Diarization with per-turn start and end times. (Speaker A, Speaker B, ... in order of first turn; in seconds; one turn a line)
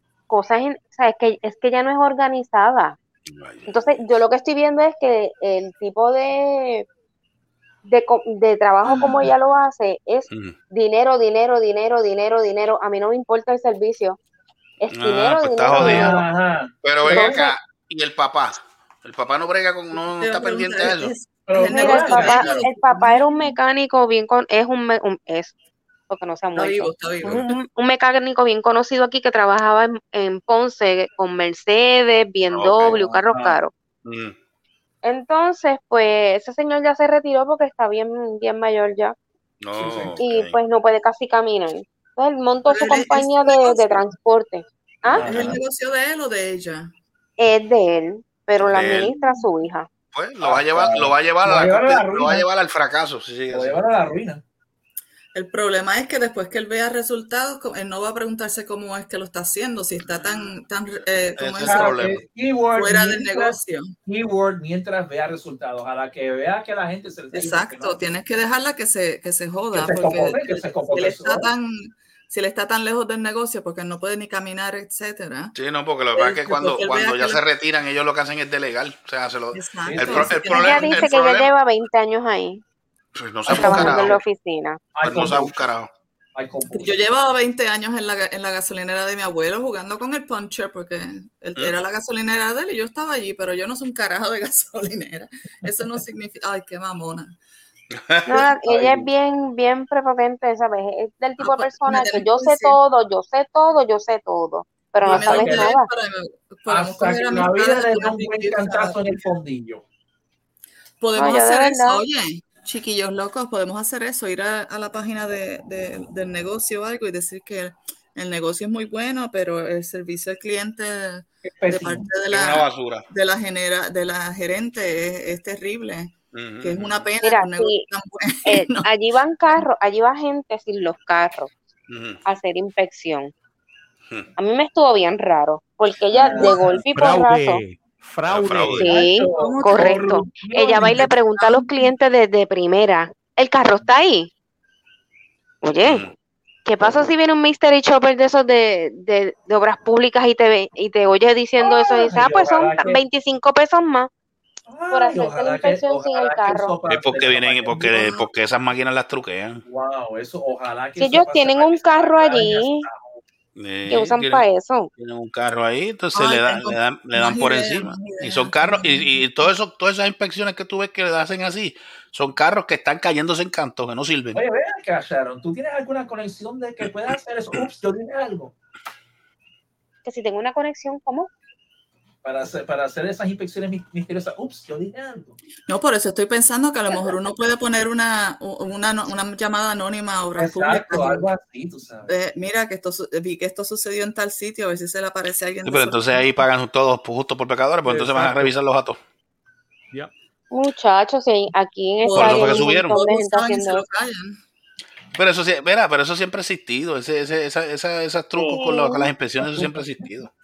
Speaker A: 0.3-3.0
Speaker B: 3.3-3.7
Speaker A: 3.7-6.8
Speaker A: 7.8-14.2
Speaker C: 8.9-9.2
Speaker B: 10.3-10.6
Speaker A: 14.8-16.2
Speaker B: 14.9-16.2
Speaker C: 15.7-17.5
Speaker B: 16.8-21.1
Speaker A: 17.1-17.5
Speaker D: 20.2-23.2
Speaker C: 21.5-22.7
Speaker A: 21.6-25.5
Speaker A: 26.1-33.7
Speaker D: 26.6-27.6
Speaker B: 32.5-33.0
Speaker C: 33.0-33.6
Speaker B: 34.0-34.3
Speaker A: 35.0-39.1
Speaker B: 39.6-40.6
Speaker C: 39.7-40.2
Speaker A: 40.2-45.3
Speaker D: 42.7-44.0
Speaker C: 45.1-45.6
Speaker D: 45.2-46.9
Speaker B: 45.2-45.5
Speaker A: 47.4-49.9
Speaker B: 48.6-49.1
Speaker B: 50.1-53.8
Speaker C: 50.4-52.5
Speaker C: 53.5-54.4
Speaker D: 55.3-62.2
Speaker B: 61.4-62.2
Speaker C: 61.6-68.0
Speaker D: 62.7-63.9
Speaker D: 67.3-75.5
Speaker C: 69.7-71.5
Speaker B: 75.5-81.5
Speaker D: 76.1-77.4
Speaker D: 79.5-81.1
Speaker C: 79.8-80.5
Speaker A: 80.5-82.6
Speaker B: 83.2-84.2
Speaker C: 83.5-84.2
Speaker A: 83.5-84.8
Speaker C: 84.9-85.6
Speaker B: 85.0-85.9
Speaker C: 86.3-87.0
Speaker D: 86.7-97.3
Speaker B: 97.9-98.4
Speaker A: 98.2-105.9
Speaker C: 98.7-99.1
Speaker D: 101.4-102.8
Speaker C: 105.0-105.8
Speaker D: 105.0-109.3
Speaker C: 106.7-109.8
Speaker D: 111.0-128.8
Speaker A: 111.1-112.0
Speaker C: 121.4-122.1
Speaker B: 122.3-123.0
Speaker B: 126.3-127.1
Speaker A: 127.2-127.8
Speaker A: 128.4-131.5
Speaker B: 131.9-132.2
Speaker A: 132.2-133.3
Speaker A: 134.4-137.6
Speaker C: 136.1-136.8
Speaker E: 136.9-138.9
Speaker B: 138.3-138.9
Speaker A: 138.8-144.3
Speaker C: 138.9-141.1
Speaker D: 139.3-141.8
Speaker A: 145.6-146.1
Speaker B: 145.8-146.1
Speaker A: 146.7-154.1
Speaker C: 151.6-153.0
Speaker C: 154.7-158.1
Speaker A: 154.9-156.8
Speaker B: 156.8-159.6
Speaker D: 157.9-158.2
Speaker C: 159.6-163.2
Speaker A: 161.0-162.9
Speaker B: 163.6-164.4
Speaker A: 163.9-164.9
Speaker B: 165.0-174.4
Speaker D: 166.1-169.2
Speaker C: 174.3-178.5
Speaker A: 180.0-181.3
Speaker C: 182.2-185.3
Speaker D: 185.7-191.2
Speaker C: 190.3-192.1
Speaker D: 192.1-196.2
Speaker B: 195.7-199.0
Speaker C: 197.8-198.5
Speaker A: 200.5-203.8
Speaker D: 202.0-204.4
Speaker B: 202.1-203.0
Speaker B: 205.1-210.3
Speaker A: 208.4-209.1
Speaker C: 209.4-210.1